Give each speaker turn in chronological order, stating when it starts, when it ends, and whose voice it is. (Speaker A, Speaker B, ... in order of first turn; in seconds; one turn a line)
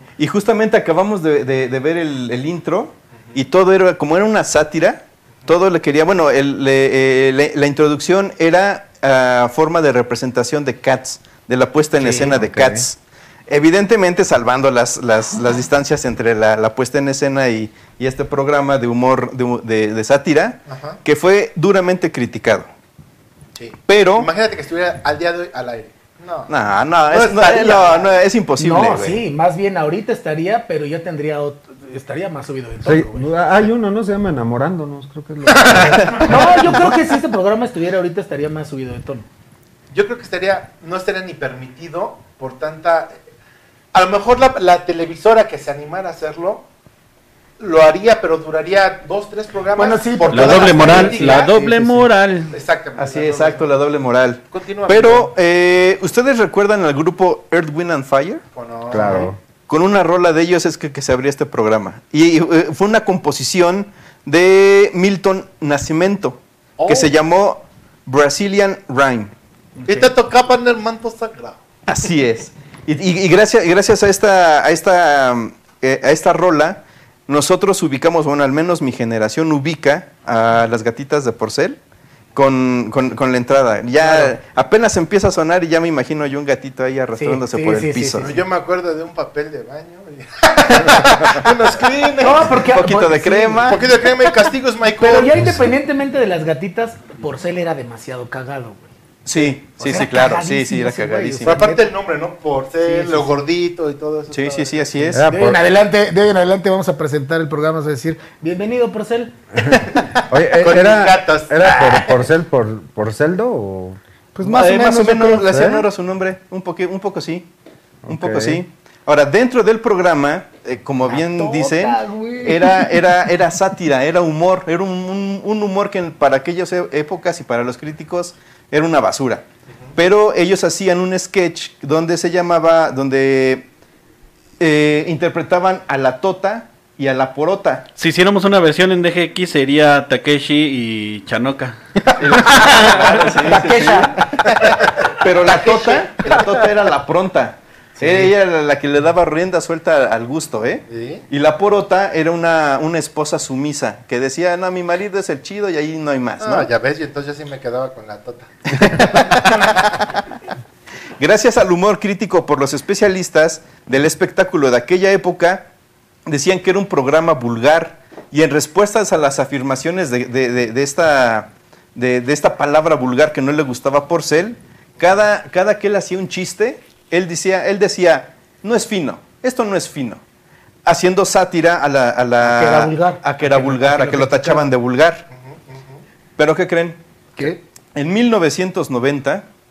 Speaker A: 0.2-22.7
Speaker B: 12.0-12.9
Speaker C: 20.7-21.0
Speaker C: 23.6-26.5
Speaker A: 23.9-24.3
Speaker A: 26.5-29.2
Speaker C: 27.1-28.2
Speaker D: 28.6-33.4
Speaker B: 32.9-36.6
Speaker D: 36.2-39.3
Speaker C: 39.9-43.2
Speaker C: 43.9-46.6
Speaker C: 47.6-51.5
Speaker D: 49.8-52.1
Speaker E: 50.3-52.5
Speaker C: 52.5-53.7
Speaker A: 53.0-58.4
Speaker C: 54.5-55.3
Speaker C: 58.5-59.3
Speaker B: 58.9-59.4
Speaker A: 59.7-69.3
Speaker C: 66.8-67.1
Speaker D: 69.8-70.1
Speaker C: 69.9-71.6
Speaker A: 71.9-81.8
Speaker A: 82.3-88.3
Speaker D: 87.2-88.3
Speaker C: 88.2-92.6
Speaker A: 90.8-91.5
Speaker D: 92.2-93.8
Speaker A: 92.7-93.9
Speaker C: 93.7-95.5
Speaker D: 95.0-98.9
Speaker A: 99.3-101.6
Speaker D: 99.8-101.8
Speaker C: 101.5-104.9
Speaker D: 102.8-103.3
Speaker A: 104.3-105.2
Speaker B: 105.1-105.6
Speaker D: 105.3-109.8
Speaker B: 109.6-114.0
Speaker C: 110.5-111.6
Speaker D: 111.7-112.1
Speaker D: 114.4-115.5
Speaker A: 114.4-117.5
Speaker B: 115.5-115.9
Speaker B: 118.0-118.6
Speaker A: 118.1-129.4
Speaker D: 121.1-123.1
Speaker A: 130.0-133.7
Speaker A: 134.6-137.9
Speaker E: 138.0-142.0
Speaker A: 142.2-156.7
Speaker E: 142.6-143.3
Speaker D: 143.4-144.2
Speaker C: 145.5-146.7
Speaker D: 148.0-148.3
Speaker C: 150.9-151.2
Speaker C: 156.4-159.7
Speaker A: 158.7-160.1
Speaker A: 161.2-165.7
Speaker A: 166.3-180.2
Speaker A: 180.8-185.3
Speaker D: 182.4-184.7
Speaker C: 185.3-186.0
Speaker A: 186.4-187.0
Speaker A: 187.9-189.5